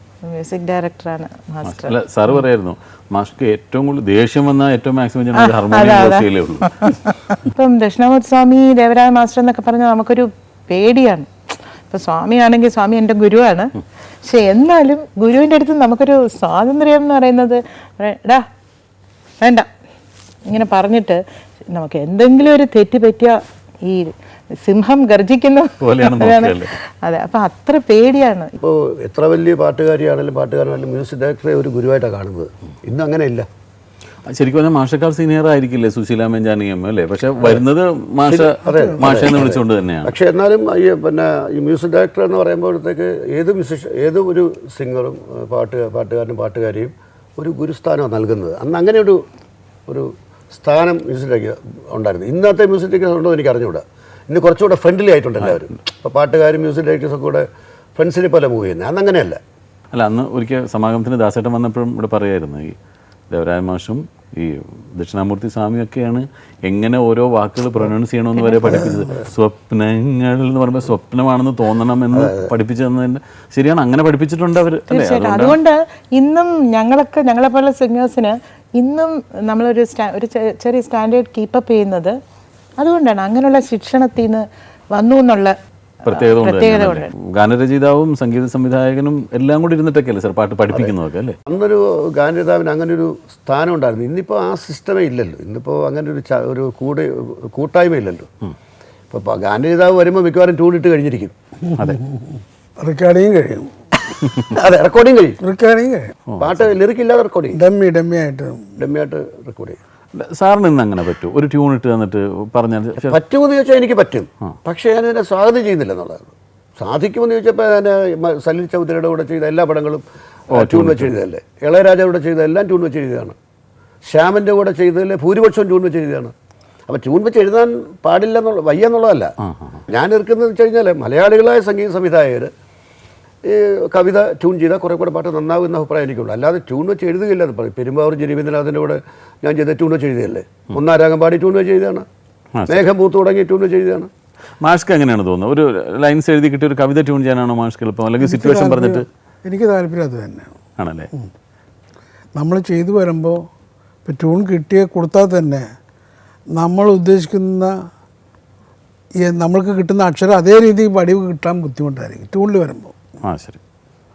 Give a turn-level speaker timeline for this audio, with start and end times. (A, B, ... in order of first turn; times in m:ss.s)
0:00.2-0:02.0 A
0:01.7-0:06.7 B
0:05.4-0:11.3 A
0:11.9-0:18.4 A
0:19.4-0:19.7 A
0:20.5-0:28.6 A
0:25.8-0:26.7 B
0:28.6-0:33.5 C
0:34.3-0:40.2 B
0:38.2-0:49.2 C
0:38.6-0:39.2 D
0:49.9-0:59.4 C
0:59.9-1:02.8 B
1:03.3-1:15.6 B
1:08.4-1:08.9 A
1:12.1-1:12.5 C
1:14.9-1:22.2 A
1:22.8-1:25.5 A
1:26.0-1:31.4 B
1:26.1-1:27.1 A
1:31.5-1:38.3 C
1:39.1-1:41.4 C
1:41.7-1:43.7 D
1:44.5-1:45.4 C
1:45.4-1:46.2 D
1:46.3-1:46.7 B
1:46.4-1:47.6 C
1:47.5-1:48.7 D
1:48.8-1:49.8 C
1:50.2-1:53.2 B
1:53.1-2:03.4 C
2:00.5-2:01.1 B
2:04.0-2:06.3 C
2:06.9-2:09.4 C
2:09.4-2:09.8 B
2:09.9-2:12.5 C
2:13.4-2:22.1 C
2:22.6-2:22.8 B
2:22.7-2:24.1 C
2:24.6-2:29.1 B
2:28.2-2:30.5 D
2:30.8-2:31.1 B
2:32.4-2:33.5 D
2:34.0-2:35.7 D
2:36.5-2:37.9 D
2:39.2-2:43.0 D
2:43.2-2:43.6 B